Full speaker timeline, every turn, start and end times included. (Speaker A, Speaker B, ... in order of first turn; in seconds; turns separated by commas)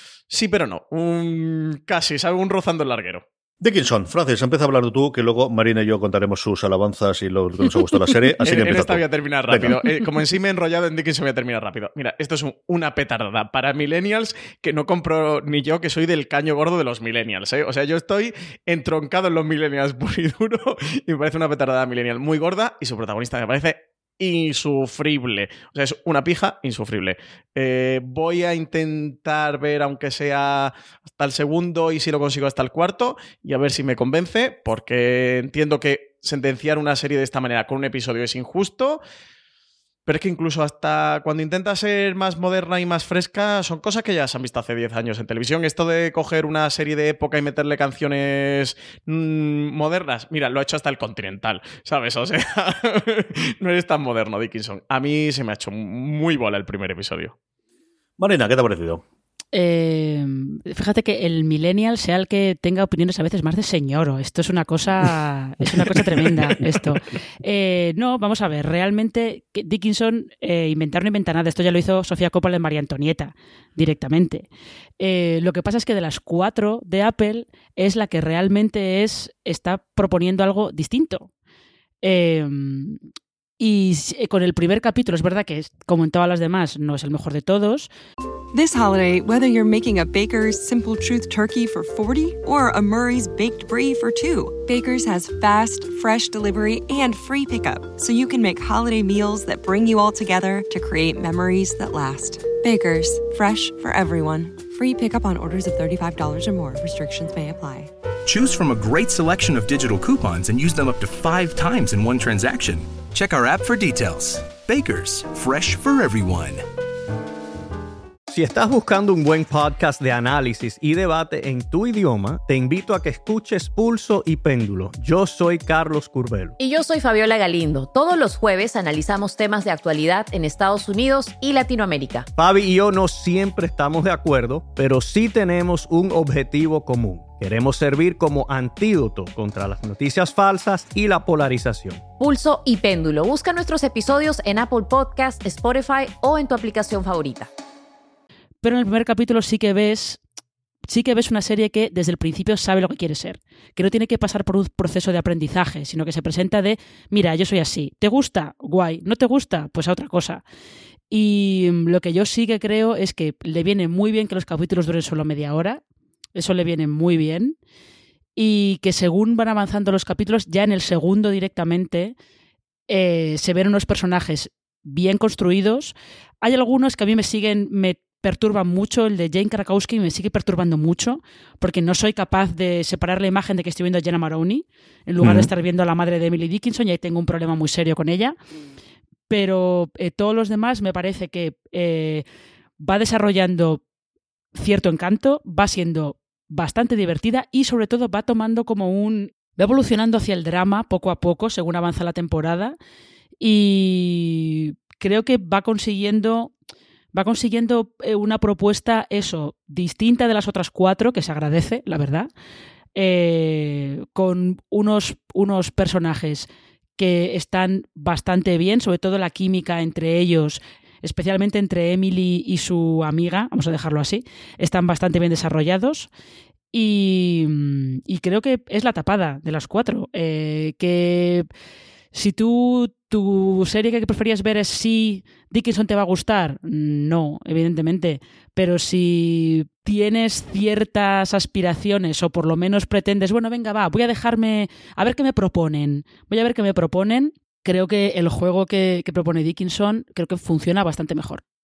Speaker A: 0.3-3.2, Speaker B: 3.6-9.9, Speaker A: 8.4-39.0, Speaker A: 40.1-57.3, Speaker B: 58.2-59.0, Speaker C: 59.5-74.5, Speaker C: 75.0-81.3, Speaker C: 82.0-83.0, Speaker C: 83.6-87.9, Speaker D: 88.5-107.9, Speaker E: 108.3-116.6, Speaker F: 118.3-126.6, Speaker G: 126.6-132.3, Speaker F: 132.4-142.0, Speaker G: 142.2-147.5, Speaker C: 148.6-150.2, Speaker C: 150.9-160.4, Speaker C: 161.1-165.8, Speaker C: 166.3-167.6, Speaker C: 168.4-172.2, Speaker C: 172.9-188.4, Speaker B: 185.2-185.5, Speaker C: 189.3-192.2, Speaker C: 192.8-193.8, Speaker C: 194.6-202.8, Speaker C: 203.4-206.5, Speaker C: 207.1-212.3, Speaker C: 212.9-226.1, Speaker C: 226.7-231.5, Speaker C: 232.1-251.4